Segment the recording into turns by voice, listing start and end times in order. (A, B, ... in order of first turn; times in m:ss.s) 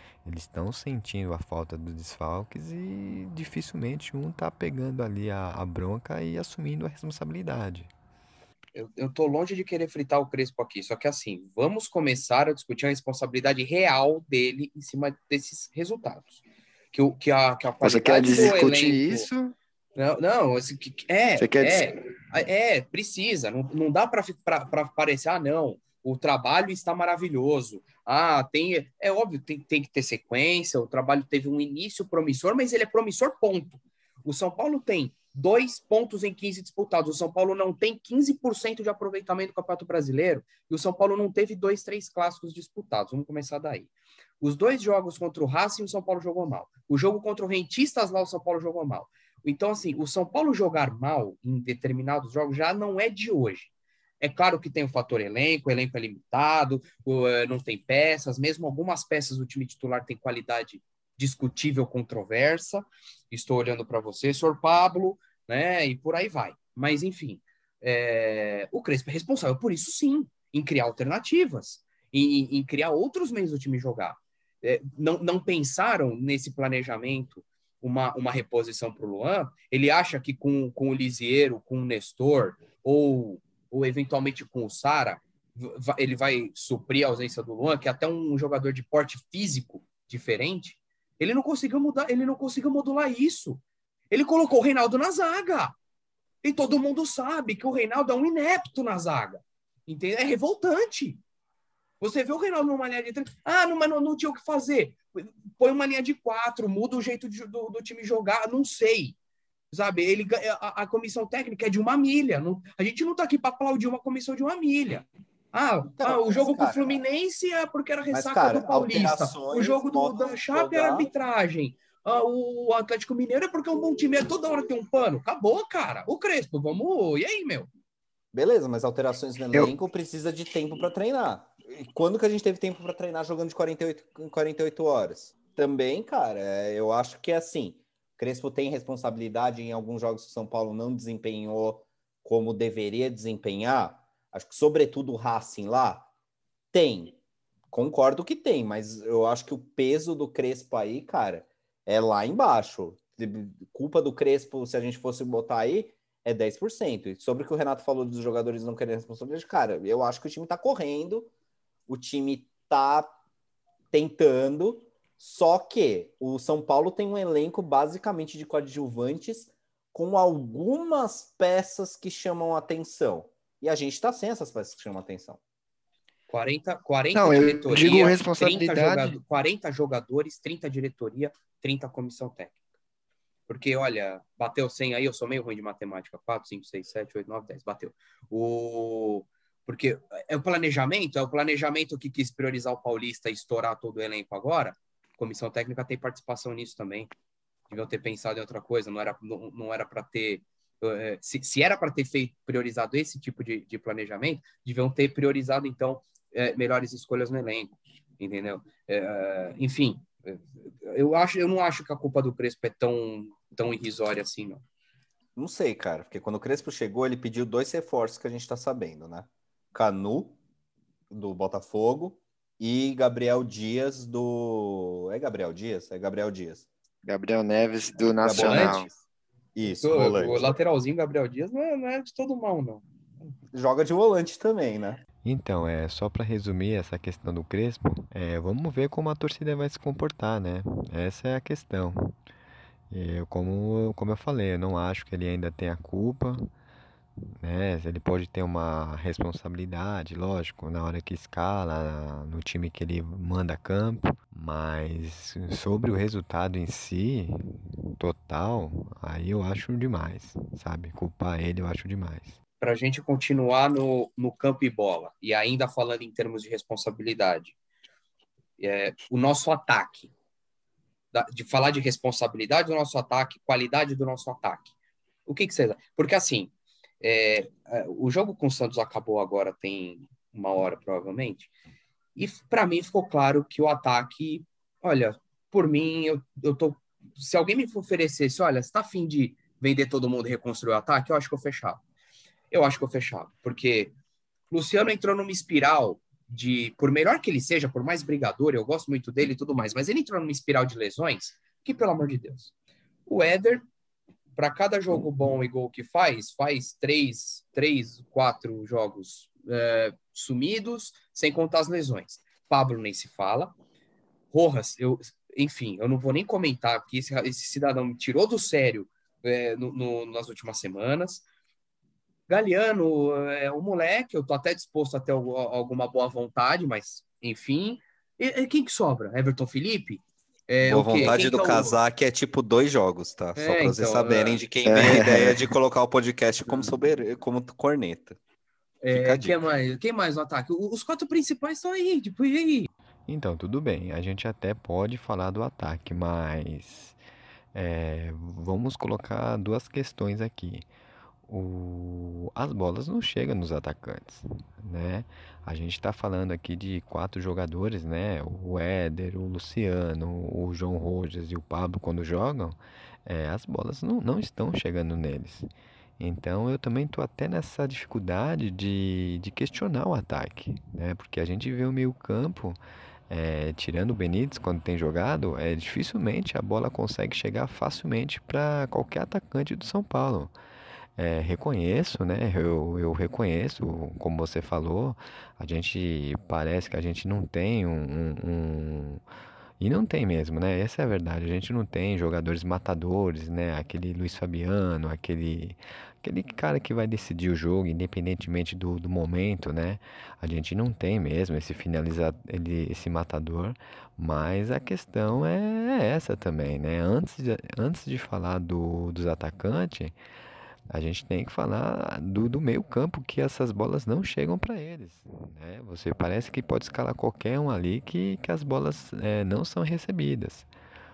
0:00.2-0:07.9 A
0:08.7-0:19.3 B
0:17.8-0:19.5 C
0:20.0-1:35.8 B
0:21.4-0:21.9 C
1:36.4-1:41.2 B
1:42.0-1:49.2 B
1:49.7-2:07.7 B
1:56.0-1:57.0 D
1:58.1-2:01.1 D
2:08.3-2:26.1 D
2:26.7-2:27.2 D
2:27.7-2:41.3 D
2:41.9-2:43.1 D
2:43.9-2:55.4 D
2:56.3-3:02.6 B
2:57.1-2:59.2 C
3:03.5-3:17.1 B
3:17.7-3:34.6 B
3:35.4-3:40.4 D
3:41.1-3:46.7 D
3:47.0-3:48.9 C
3:48.2-3:48.9 D
3:48.2-3:48.9 B
3:49.5-3:50.5 D
3:49.6-3:52.8 B
3:53.5-3:55.0 D
3:55.2-4:02.1 A
4:02.9-4:06.5 A
4:07.4-4:22.4 A
4:22.6-4:27.5 B
4:28.6-4:30.1 B
4:31.1-4:34.7 B
4:35.2-4:41.5 B
4:42.2-4:51.8 B
4:52.5-4:53.9 B
4:54.5-5:02.5 B
5:03.1-5:03.6 B
5:04.4-5:13.5 B
5:14.3-5:21.2 B
5:22.3-5:31.8 B
5:30.6-5:38.2 D
5:33.4-5:34.4 B
5:34.6-5:35.5 C
5:38.8-5:42.7 B
5:38.9-5:39.4 D
5:43.1-5:47.0 A
5:47.5-5:50.6 A
5:51.3-6:05.5 A
6:06.0-6:20.3 A
6:21.0-6:29.0 A
6:29.6-6:49.9 A
6:50.7-7:00.5 A